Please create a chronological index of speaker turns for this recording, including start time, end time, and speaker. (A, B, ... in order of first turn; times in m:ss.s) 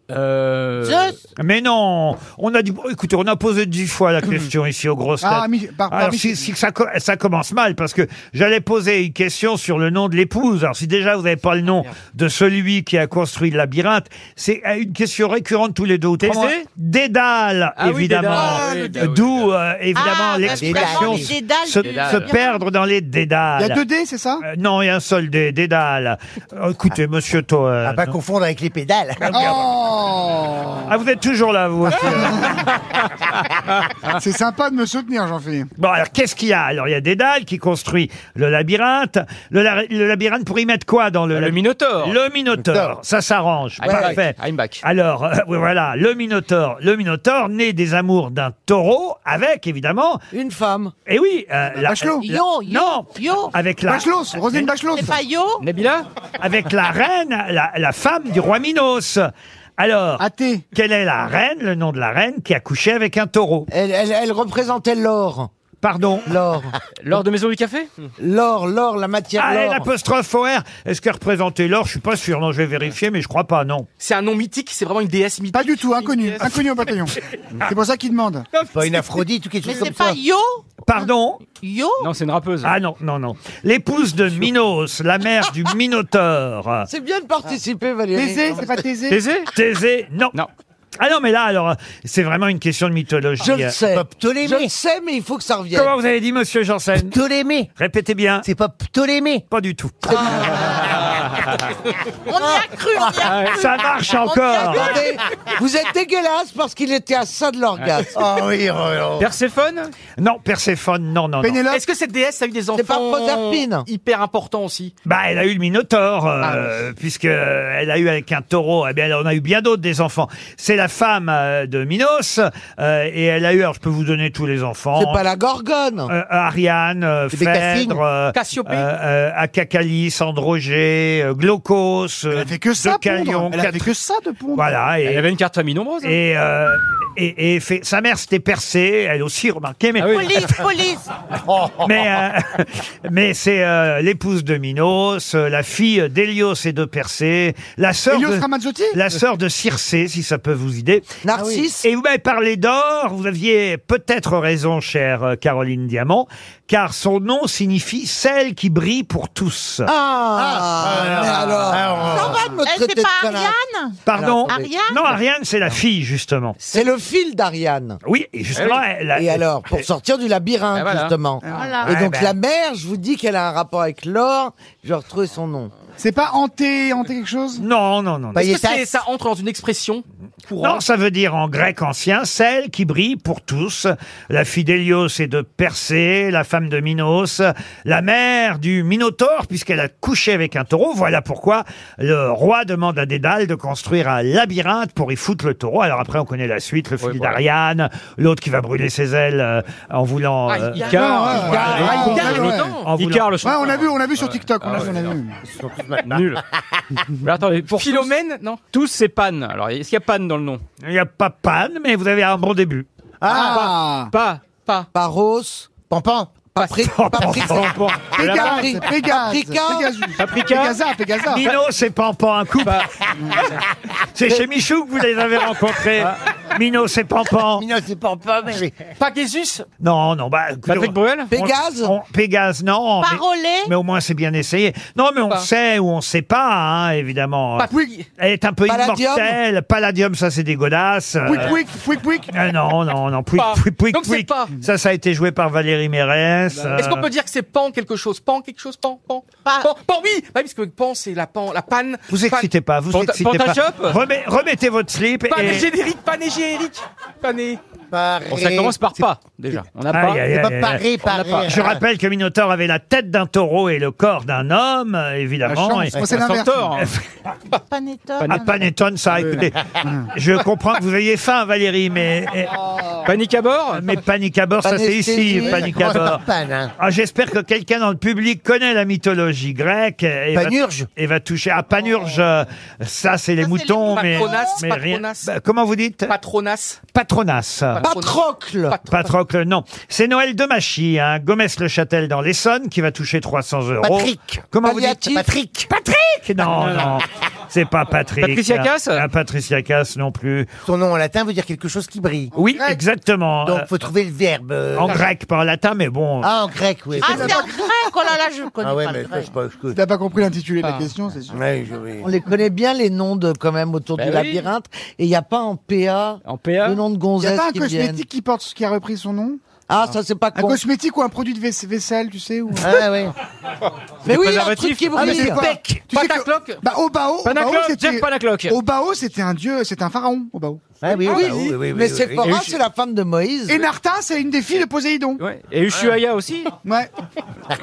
0:00.1-0:01.1 A
0:00.8-0:01.2 B
0:01.4-0:23.8 C
0:05.2-0:06.5 D
0:16.2-0:16.6 A
0:17.8-0:19.5 A
0:18.7-0:19.0 D
0:19.9-0:22.6 B
0:20.5-0:21.3 E
0:21.8-0:22.3 A
0:23.6-0:24.4 D
0:24.4-0:28.1 C
0:27.8-0:29.5 E
0:29.2-0:29.7 C
0:29.3-0:30.9 D
0:30.9-0:32.6 C
0:32.0-0:32.6 D
0:34.2-0:35.7 D
0:35.8-0:50.2 C
0:41.3-0:42.2 A
0:42.6-0:42.9 E
0:43.8-0:44.8 A
0:50.3-0:50.9 F
0:51.1-0:54.7 C
0:51.8-0:52.3 D
0:52.3-0:53.5 B
0:53.9-0:55.2 D
0:54.9-0:55.6 B
0:55.6-0:56.0 A
0:56.4-1:03.7 C
1:00.2-1:00.6 D
1:03.7-1:05.5 F
1:05.8-1:06.3 C
1:06.2-1:06.7 F
1:07.0-1:07.9 A
1:08.2-1:09.9 F
1:09.4-1:13.9 C
1:14.0-1:16.7 G
1:15.5-1:18.4 D
1:18.5-1:19.0 G
1:18.7-1:20.2 E
1:19.6-1:20.6 B
1:20.8-1:21.4 C
1:21.6-1:22.1 B
1:22.0-1:22.7 A
1:22.6-1:26.9 C
1:26.8-1:28.6 F
1:28.1-1:29.2 D
1:29.1-1:29.5 A
1:29.5-1:30.4 C
1:31.0-1:33.8 C
1:33.4-1:35.9 F
1:33.9-1:34.7 E
1:35.7-1:37.1 C
1:37.0-1:37.7 E
1:37.8-1:38.4 C
1:38.4-1:39.4 E
1:39.5-1:40.4 C
1:40.5-1:41.5 A
1:42.3-1:45.1 B
1:43.2-1:43.6 A
1:43.5-1:45.0 C
1:44.6-1:48.1 F
1:47.8-1:48.0 A
1:48.1-1:49.3 E
1:49.2-1:49.9 A
1:50.2-1:51.6 C
1:51.4-1:51.8 D
1:51.7-1:54.9 G
1:52.7-1:53.9 F
1:55.0-2:05.2 C
2:04.9-2:06.1 F
2:06.1-2:13.9 C
2:07.3-2:08.0 E
2:08.3-2:08.9 G
2:12.3-2:14.7 D
2:14.5-2:15.3 C
2:15.0-2:16.2 A
2:16.0-2:20.6 C
2:20.0-2:20.4 A
2:20.0-2:21.1 B
2:21.4-2:22.0 E
2:21.8-2:31.2 C
2:28.1-2:29.0 D
2:31.2-2:31.8 F
2:31.8-2:39.9 C
2:39.8-2:43.5 F
2:40.4-2:42.5 E
2:41.9-2:42.6 D
2:42.1-2:45.0 B
2:44.0-2:46.6 C
2:44.1-2:44.7 F
2:46.7-2:48.0 F
2:48.0-2:49.8 C
2:48.5-2:48.8 A
2:49.1-2:55.7 F
2:50.7-2:51.1 A
2:51.4-2:51.8 D
2:51.5-2:51.9 B
2:51.8-2:52.3 C
2:56.0-2:57.6 D
2:57.6-2:58.5 C
2:58.3-2:58.8 E
2:58.4-3:00.8 G
3:00.6-3:23.3 C
3:17.0-3:17.4 A
3:20.5-3:22.8 G
3:20.8-3:25.1 A
3:20.9-3:22.8 D
3:21.4-3:22.3 F
3:23.4-3:25.4 D
3:25.4-3:26.4 E
3:26.0-3:26.4 A
3:27.2-3:28.1 A
3:27.7-3:28.6 G
3:28.7-3:30.6 A
3:30.8-3:32.9 C
3:33.2-3:34.1 D
3:33.3-3:34.6 A
3:34.9-3:35.7 F
3:35.9-3:36.5 E
3:36.5-3:40.0 F
3:36.8-3:37.7 C
3:37.3-3:38.8 A
3:38.1-3:41.5 D
3:40.2-3:40.8 A
3:41.3-3:42.9 C
3:42.6-3:42.9 A
3:44.1-3:47.6 C
3:47.6-3:48.7 E
3:49.0-3:49.6 G
3:49.8-4:01.6 C
3:50.6-3:51.3 A
3:51.3-3:51.9 F
3:53.0-3:53.7 B
3:57.6-3:58.1 G
3:58.7-3:59.4 F
4:01.2-4:02.3 D
4:02.3-4:07.0 C
4:03.4-4:04.5 G
4:06.8-4:12.5 G
4:12.1-4:15.7 C
4:12.9-4:14.0 A
4:15.3-4:17.6 G
4:17.9-4:19.0 E
4:18.3-4:20.3 A
4:19.9-4:20.8 C
4:20.3-4:21.8 E
4:21.0-4:21.5 A
4:21.4-4:26.0 C
4:25.4-4:26.8 D
4:26.0-4:26.9 A
4:27.7-4:28.6 B
4:28.3-4:29.6 C
4:29.1-4:30.1 D
4:30.1-4:32.5 C
4:33.0-4:33.9 A
4:33.7-4:46.1 C
4:34.6-4:36.1 F
4:35.5-4:36.7 E
4:40.3-4:40.9 E
4:43.4-4:44.6 B
4:43.9-4:45.3 G
4:46.1-4:46.8 G
4:46.9-4:47.9 C
4:47.7-4:49.1 G
4:47.8-4:48.8 F
4:48.9-5:00.5 C
4:53.8-4:54.4 E
4:54.6-4:55.3 F
4:55.0-4:55.7 E
4:56.4-4:57.0 A
4:58.2-4:59.0 A
5:00.6-5:02.3 E
5:02.4-5:03.7 C
5:02.5-5:02.8 D
5:03.4-5:05.0 E
5:04.7-5:06.3 C
5:06.2-5:07.4 E
5:07.0-5:07.7 D
5:07.0-5:09.3 B
5:08.6-5:09.8 E
5:09.7-5:11.4 D
5:10.6-5:10.9 A
5:11.3-5:12.0 E
5:12.0-5:18.0 F
5:14.0-5:14.4 A
5:16.2-5:16.8 A
5:17.2-5:19.4 D
5:19.7-5:20.6 F
5:20.3-5:22.8 D
5:22.6-5:23.1 E
5:24.0-5:25.4 A
5:24.0-5:25.4 F
5:25.0-5:30.8 D
5:25.3-5:26.6 G
5:27.2-5:28.6 A
5:30.8-5:32.4 E
5:31.0-5:31.6 G
5:31.0-5:33.6 F
5:33.5-5:35.2 D
5:35.2-5:36.5 A
5:36.6-5:36.9 D